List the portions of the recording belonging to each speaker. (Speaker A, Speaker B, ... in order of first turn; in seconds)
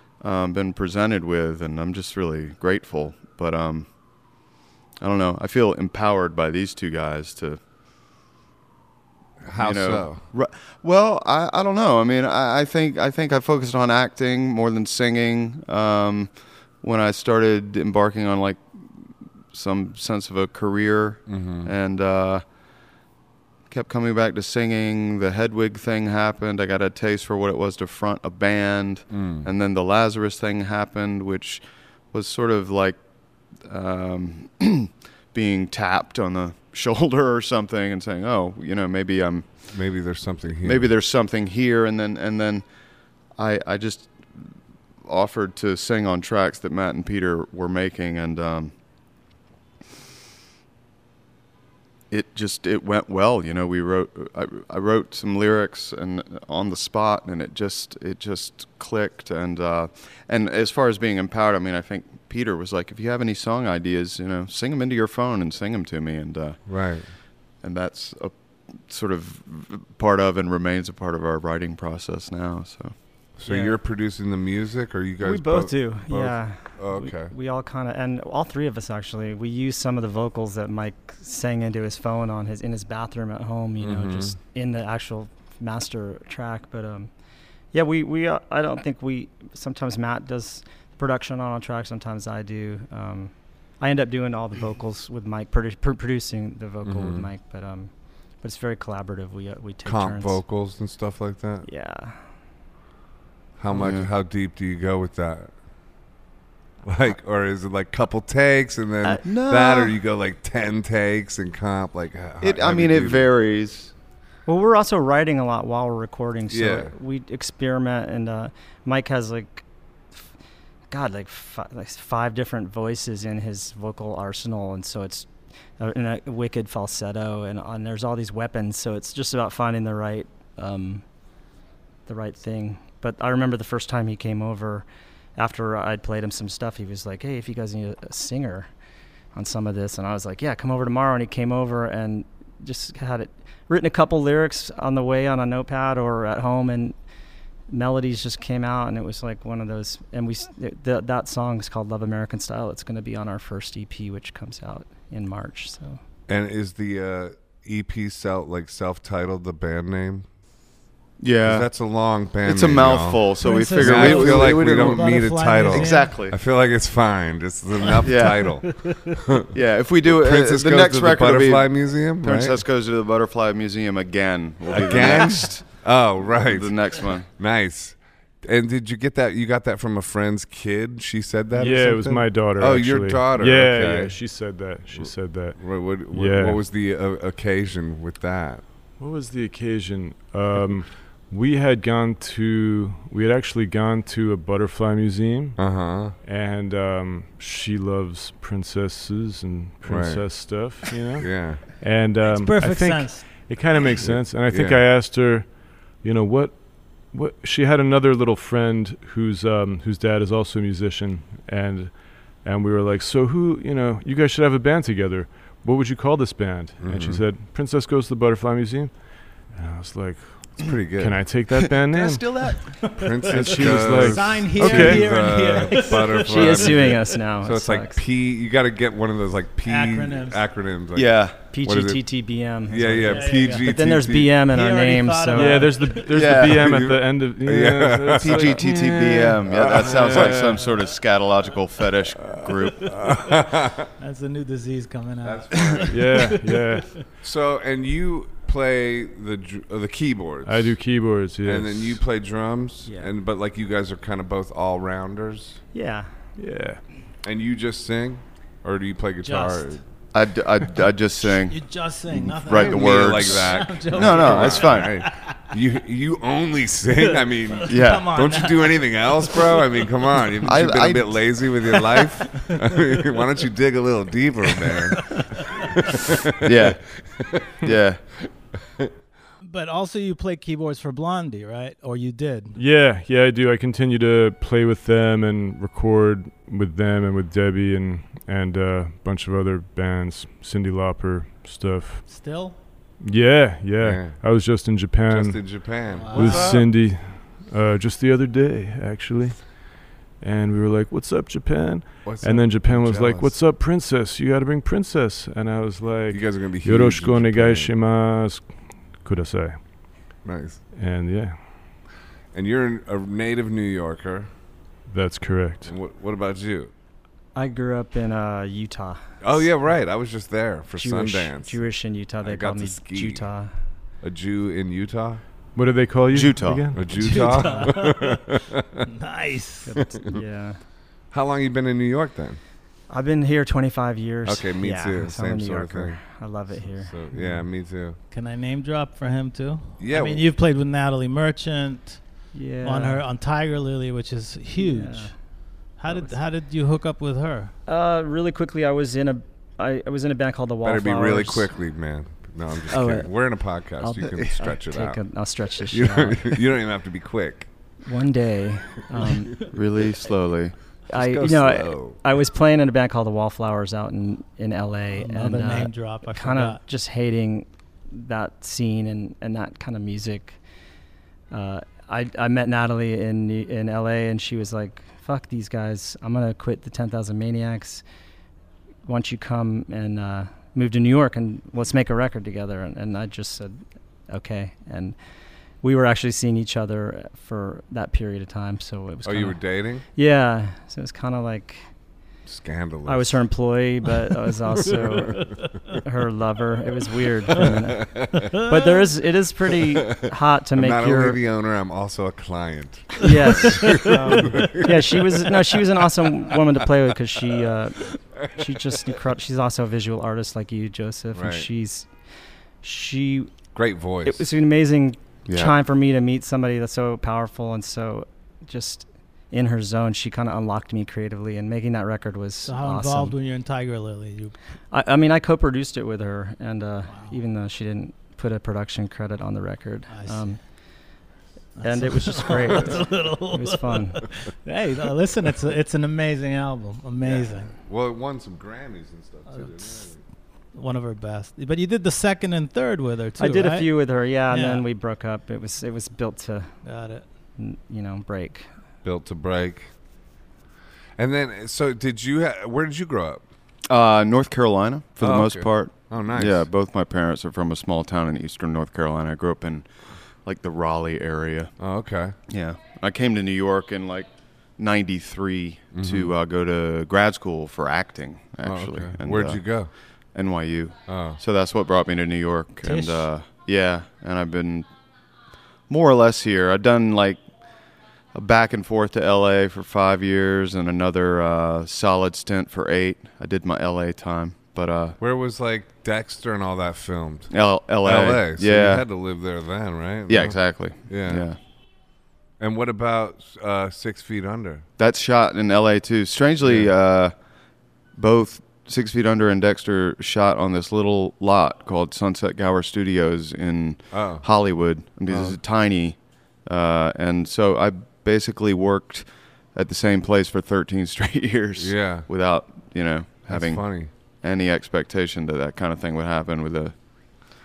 Speaker A: 0.2-3.9, 5.0-7.6, 9.6-18.6, 19.5-22.4, 23.7-33.0, 33.5-39.7, 40.6-42.6, 43.3-44.5, 45.0-48.7, 52.1-66.6, 67.6-72.9, 103.7-104.1, 109.0-109.9, 112.4-113.9, 161.2-161.7, 162.4-166.3, 168.0-168.6, 169.5-175.7, 176.3-177.3, 221.9-222.5, 230.9-231.3, 236.1-236.6, 238.2-242.9, 260.1-264.9, 267.7-268.1, 270.4-271.3, 276.4-276.9, 277.6-278.0, 326.1-326.9, 359.4-360.6, 415.3-415.5, 453.7-459.7, 460.2-461.5, 462.3-469.4, 470.1-474.7, 475.7-477.2, 478.1-485.0, 487.3-488.8, 490.1-491.4, 494.8-497.1, 497.9-516.7
Speaker B: 9.4-10.2, 21.3-21.7, 29.1-29.5, 39.7-40.9, 66.7-67.0, 73.4-77.3, 83.8-84.4, 96.8-97.3, 99.8-101.7, 103.6-105.5, 106.8-113.3, 116.5-116.9, 156.3-160.3, 161.4-169.5, 170.0-172.6, 174.7-184.2, 184.9-188.6, 195.6-196.1, 199.8-201.6, 204.0-204.8, 216.8-217.2, 220.6-221.3, 222.9-232.0, 232.7-234.4, 236.2-240.6, 242.8-243.9, 245.2-246.3, 247.2-250.8, 251.4-255.6, 257.2-259.8, 262.5-277.7, 293.8-294.2, 295.1-296.7, 302.0-303.3, 306.1-307.7, 310.2-310.6, 312.3-314.3, 315.6-316.7, 319.2-321.6, 322.2-323.3, 324.0-325.2, 326.7-328.8, 329.9-330.2, 331.1-332.4, 334.2-338.0, 339.8-340.3, 350.6-355.1, 355.7-357.5, 360.9-362.1, 389.0-389.8, 392.2-393.2, 397.4-398.3, 399.7-405.1, 406.6-407.4, 408.1-408.9, 411.1-411.5, 413.5-414.2, 437.0-440.0, 448.8-449.7, 451.0-453.2, 455.0-456.5, 461.6-462.1, 465.7-466.1, 468.4-469.7, 470.9-471.2, 485.0-491.3, 492.4-494.7, 496.4-496.7, 503.9-504.2, 505.1-505.4, 511.6-512.1, 513.3-513.9
Speaker C: 73.5-73.8, 75.2-87.1, 87.7-100.4, 101.6-102.2, 114.5-119.6, 120.9-131.0, 132.1-138.7, 139.3-146.9, 147.7-156.0, 226.2-228.0, 231.5-235.8, 252.8-253.1, 255.7-256.1, 317.3-319.4, 320.7-323.5, 329.6-330.6, 332.9-337.4, 342.3-343.1, 344.5-345.2, 345.7-346.1, 347.6-351.5, 352.7-353.1, 353.8-356.4, 357.8-359.4, 360.9-370.4, 371.3-377.8, 378.8-384.9, 385.6-391.7, 392.9-401.2, 403.0-411.9, 412.6-413.3, 414.0-423.2, 424.7-430.4, 431.6-434.0, 443.2-446.7, 447.4-448.5
Speaker D: 163.4-166.2, 168.5-168.9, 202.3-203.5, 222.3-227.0, 229.6-230.4, 233.0-233.7, 234.4-236.1, 242.9-243.4, 244.0-247.0, 259.2-259.8, 261.2-265.4, 267.0-270.2, 271.7-273.0, 274.6-275.6, 279.4-282.6, 292.1-292.6, 295.9-296.6, 326.9-329.8, 338.1-347.5, 364.9-366.6, 403.6-404.4, 422.4-424.3, 426.9-427.2, 429.9-430.3, 431.6-437.6, 439.3-439.7, 440.5-444.6, 446.6-447.0, 472.6-473.1
Speaker E: 181.5-186.6, 189.0-225.7, 235.3-240.5, 245.9-246.9, 250.4-252.0, 256.4-256.8, 282.6-292.1, 293.0-309.9, 310.7-311.5, 314.9-315.7, 325.5-327.6